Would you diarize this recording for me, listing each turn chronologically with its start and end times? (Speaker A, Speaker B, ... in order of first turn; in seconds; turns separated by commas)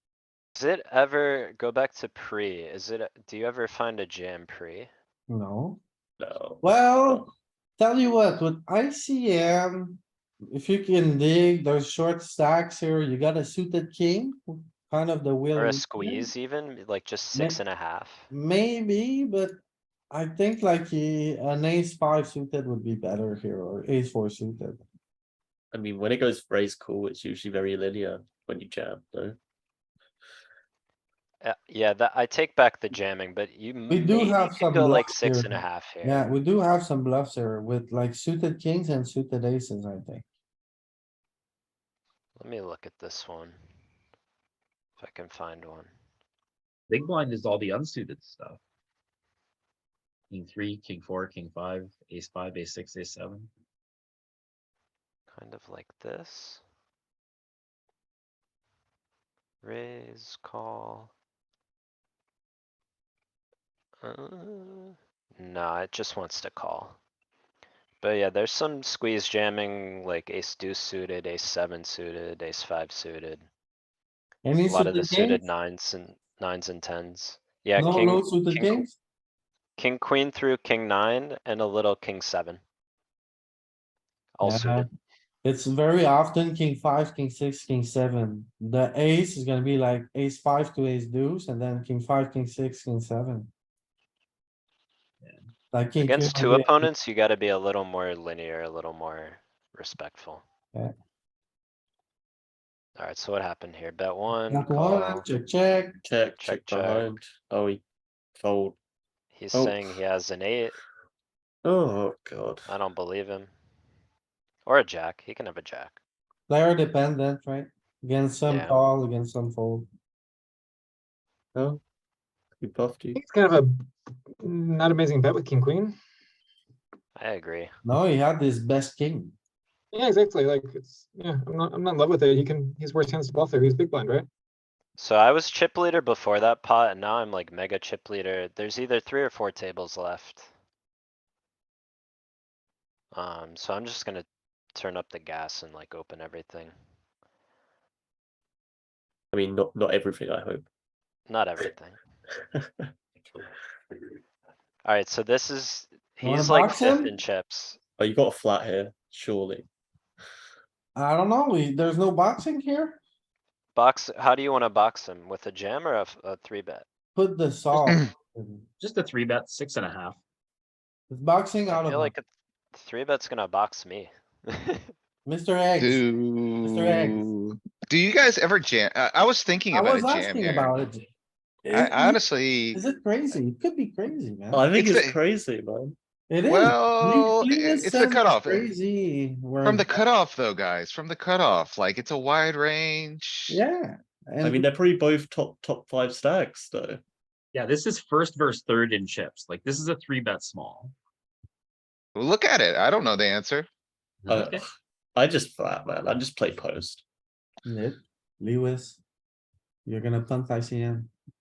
Speaker A: 0.6-4.9, Speaker B: 5.3-5.8, Speaker C: 6.2-7.3, Speaker B: 6.6-10.0, Speaker B: 10.5-16.3, Speaker A: 15.5-18.3, Speaker B: 18.3-19.6, Speaker B: 20.1-24.8, Speaker C: 25.7-29.4, Speaker A: 31.4-36.3, Speaker B: 33.9-40.2, Speaker A: 42.4-43.6, Speaker A: 45.0-45.9, Speaker D: 46.9-48.6, Speaker D: 50.3-53.5, Speaker A: 55.3-56.6, Speaker A: 59.6-61.1, Speaker A: 64.0-67.0, Speaker A: 68.0-73.5, Speaker B: 74.5-75.4, Speaker A: 74.5-78.9, Speaker B: 77.8-79.0, Speaker A: 79.8-82.6, Speaker A: 84.4-85.0, Speaker B: 84.4-84.9, Speaker B: 85.4-93.5, Speaker B: 95.7-96.9, Speaker A: 96.0-100.4, Speaker A: 103.0-105.3, Speaker B: 104.5-106.0, Speaker C: 106.0-107.8, Speaker A: 106.4-107.2, Speaker C: 108.3-108.8, Speaker A: 109.3-110.8, Speaker C: 109.5-109.9, Speaker C: 111.6-112.7, Speaker A: 112.7-113.5, Speaker A: 114.7-116.0, Speaker B: 116.5-119.9, Speaker A: 118.5-118.9, Speaker C: 121.5-121.8, Speaker C: 122.6-123.2, Speaker E: 123.1-123.7, Speaker E: 124.4-126.0, Speaker A: 127.2-127.7, Speaker B: 127.8-129.3, Speaker E: 129.9-134.3, Speaker A: 135.0-140.5, Speaker A: 143.1-146.8, Speaker C: 149.3-150.7, Speaker A: 151.3-152.0, Speaker A: 154.8-157.8, Speaker B: 156.2-157.1, Speaker C: 158.0-159.7, Speaker B: 160.9-163.0, Speaker A: 163.8-166.9, Speaker B: 167.2-168.7, Speaker D: 168.8-170.2, Speaker B: 171.1-172.1, Speaker A: 171.7-174.9, Speaker B: 175.3-176.0, Speaker F: 175.8-180.8, Speaker B: 176.6-177.3, Speaker B: 179.7-181.1, Speaker B: 181.7-182.2, Speaker F: 181.7-182.8, Speaker B: 182.7-184.7, Speaker C: 184.5-186.0, Speaker F: 184.8-185.2, Speaker B: 186.3-189.9, Speaker F: 186.4-188.7, Speaker F: 189.6-193.6, Speaker B: 193.5-194.7, Speaker C: 194.4-197.0, Speaker D: 197.5-200.9, Speaker F: 202.2-203.7, Speaker D: 204.2-204.7, Speaker C: 204.3-207.0, Speaker B: 207.7-209.0, Speaker B: 209.9-211.1